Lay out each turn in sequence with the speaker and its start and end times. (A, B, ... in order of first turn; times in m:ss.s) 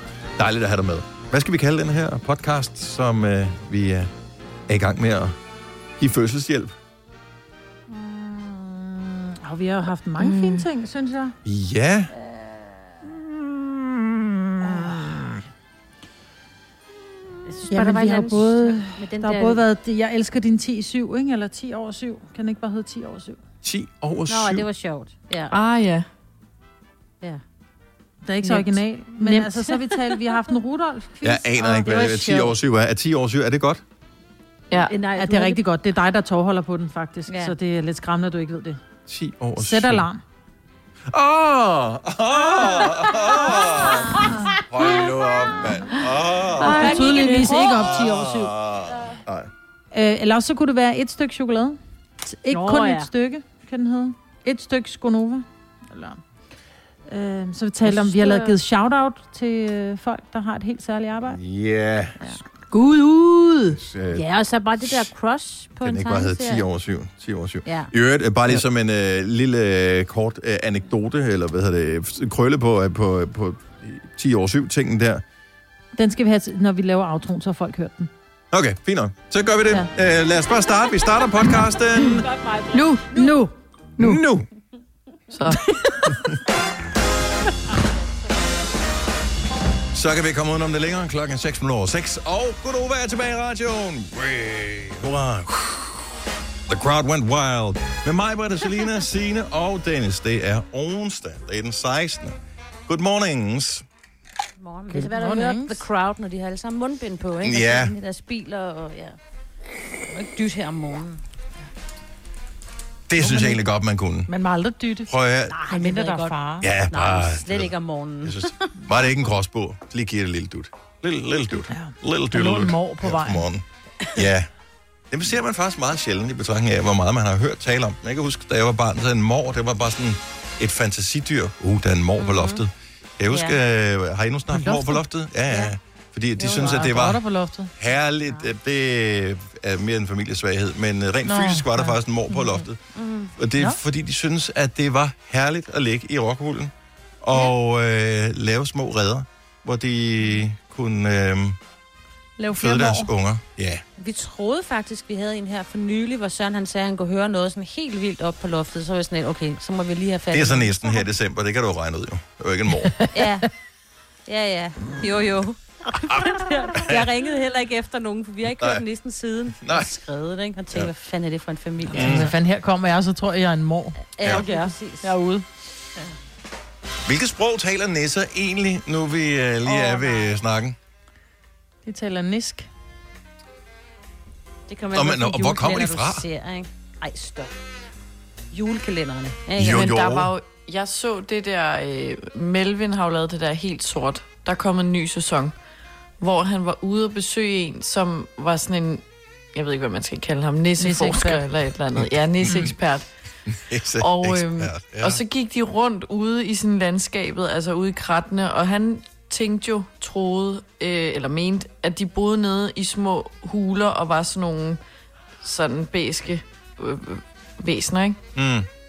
0:00.4-0:04.1 A
0:04.7-0:05.4 A
0:06.0-0:06.7 A
0:07.9-0:11.3 B
0:10.2-0:10.6 C
0:11.4-0:12.1 A
0:13.6-0:15.2 A
0:17.4-0:19.6 D
0:17.7-0:23.4 B
0:23.6-0:24.6 A
0:24.3-0:25.5 D
0:25.5-0:26.1 C
0:28.2-0:32.5 B
0:28.4-0:30.2 D
0:31.2-0:33.8 A
0:34.9-0:35.6 D
0:35.2-0:38.8 B
0:37.3-0:37.5 D
0:39.1-0:40.0 A
0:39.6-0:40.2 B
0:41.1-0:49.5 A
0:42.5-0:45.0 D
0:44.2-0:44.5 B
0:46.5-0:47.9 D
0:46.6-0:48.5 B
0:49.9-0:56.2 B
0:52.5-0:53.1 D
0:57.1-1:01.4 B
0:57.8-0:58.6 D
1:01.2-1:02.2 A
1:02.7-1:03.8 B
1:03.8-1:04.2 A
1:04.1-1:06.6 D
1:04.8-1:05.1 A
1:05.8-1:15.2 A
1:07.6-1:07.9 D
1:15.9-1:18.1 B
1:18.5-1:22.2 A
1:22.2-1:23.4 D
1:22.7-1:23.1 C
1:23.1-1:23.5 B
1:24.0-1:24.4 A
1:25.3-1:26.0 C
1:29.9-1:36.0 A
1:36.7-1:42.4 A
1:42.9-1:43.8 A
1:44.6-1:49.2 D
1:44.9-1:45.8 B
1:47.4-1:47.9 A
1:50.1-1:51.2 D
1:53.1-1:54.3 A
1:53.2-1:53.6 B
1:54.3-1:55.1 B
1:55.1-1:55.5 A
1:55.5-1:58.7 D
1:55.7-1:56.7 B
1:56.6-1:57.7 A
1:58.2-2:03.6 A
2:01.7-2:03.4 B
2:04.1-2:04.5 A
2:05.1-2:17.2 A
2:12.2-2:12.6 D
2:13.3-2:13.6 D
2:14.5-2:15.0 B
2:16.4-2:17.7 B
2:17.8-2:22.8 A
2:21.2-2:22.0 B
2:22.5-2:23.3 D
2:23.4-2:31.6 A
2:32.4-2:33.1 B
2:32.6-2:33.8 A
2:34.0-2:40.9 D
2:40.3-2:43.0 A
2:43.0-2:43.3 B
2:43.1-2:43.5 D
2:44.3-2:52.3 D
2:46.1-2:47.1 A
2:48.4-2:48.8 A
2:49.6-2:49.9 A
2:51.9-2:52.3 A
2:51.9-2:55.4 B
2:54.2-2:55.1 D
2:57.0-3:00.8 A
2:59.7-3:00.2 D
3:01.8-3:02.7 B
3:04.7-3:07.5 D
3:04.9-3:06.2 A
3:08.5-3:09.9 D
3:09.6-3:10.3 A
3:09.6-3:15.5 C
3:16.2-3:19.0 C
3:19.5-3:23.0 C
3:20.8-3:21.4 B
3:22.4-3:22.7 A
3:23.5-3:25.2 A
3:24.0-3:34.8 C
3:35.4-3:38.2 C
3:38.3-3:38.7 A